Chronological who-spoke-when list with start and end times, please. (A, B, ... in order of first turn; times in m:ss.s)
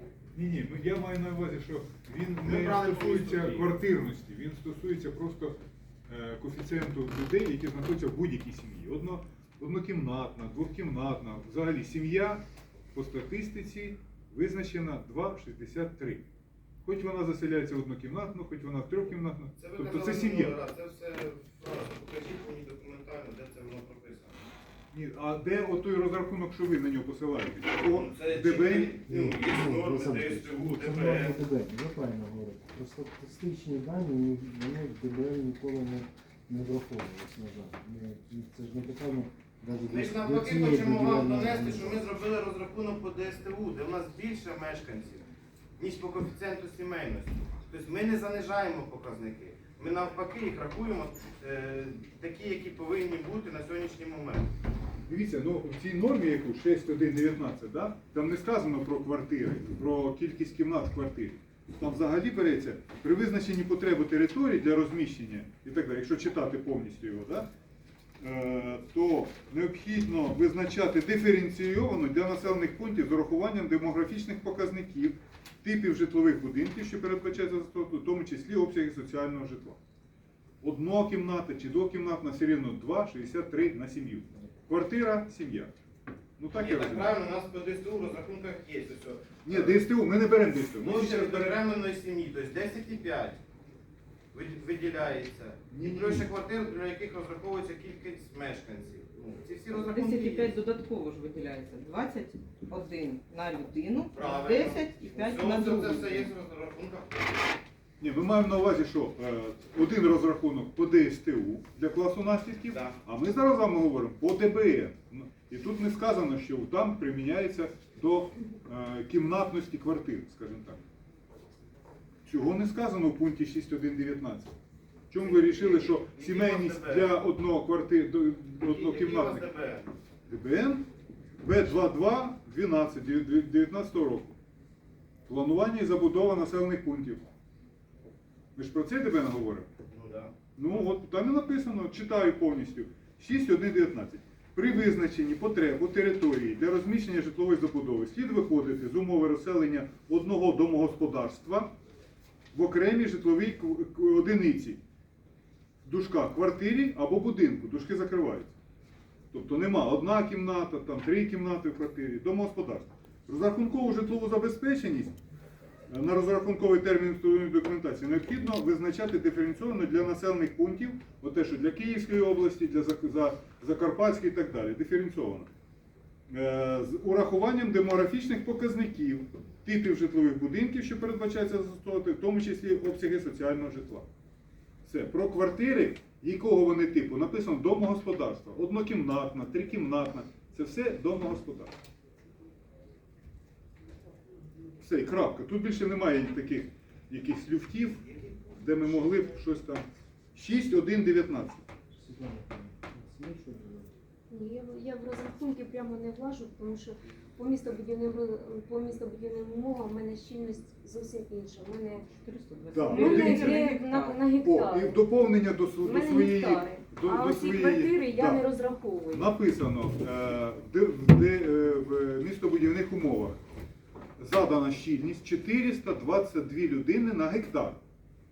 0:00.3-0:12.4 A
0:02.4-0:03.7 B
0:12.9-0:16.2 A
0:16.8-0:20.5 A
0:19.6-0:24.4 B
0:24.9-0:29.0 A
0:27.9-0:31.4 B
0:29.0-0:42.0 C
0:39.9-0:54.5 B
0:55.0-1:07.5 A
1:08.2-1:19.8 A
1:20.6-1:25.7 A
1:26.4-1:27.2 A
1:26.5-1:29.8 B
1:29.4-1:31.6 A
1:30.8-1:33.4 B
1:34.3-1:40.6 B
1:35.7-1:36.3 A
1:39.7-1:46.3 D
1:44.1-1:47.4 B
1:48.0-2:00.8 A
1:52.7-1:53.0 B
2:02.2-2:04.5 A
2:05.1-2:09.5 A
2:05.2-2:07.2 B
2:08.6-2:09.9 B
2:10.3-2:10.8 A
2:11.4-2:14.3 A
2:15.3-2:17.2 A
2:18.6-2:19.7 A
2:19.9-2:20.3 B
2:20.6-2:31.7 A
2:32.5-2:34.8 A
2:35.8-2:38.5 A
2:39.3-2:45.1 A
2:45.9-2:55.5 A
2:56.3-3:04.1 A
3:04.8-3:11.7 A
3:14.8-3:21.6 A
3:18.2-3:19.3 B
3:21.9-3:23.9 C
3:24.3-3:32.0 E
3:32.2-3:34.2 D
3:32.7-3:33.6 A
3:32.9-3:35.0 E
3:34.4-3:43.4 A
3:35.8-3:39.3 E
3:44.2-3:47.8 A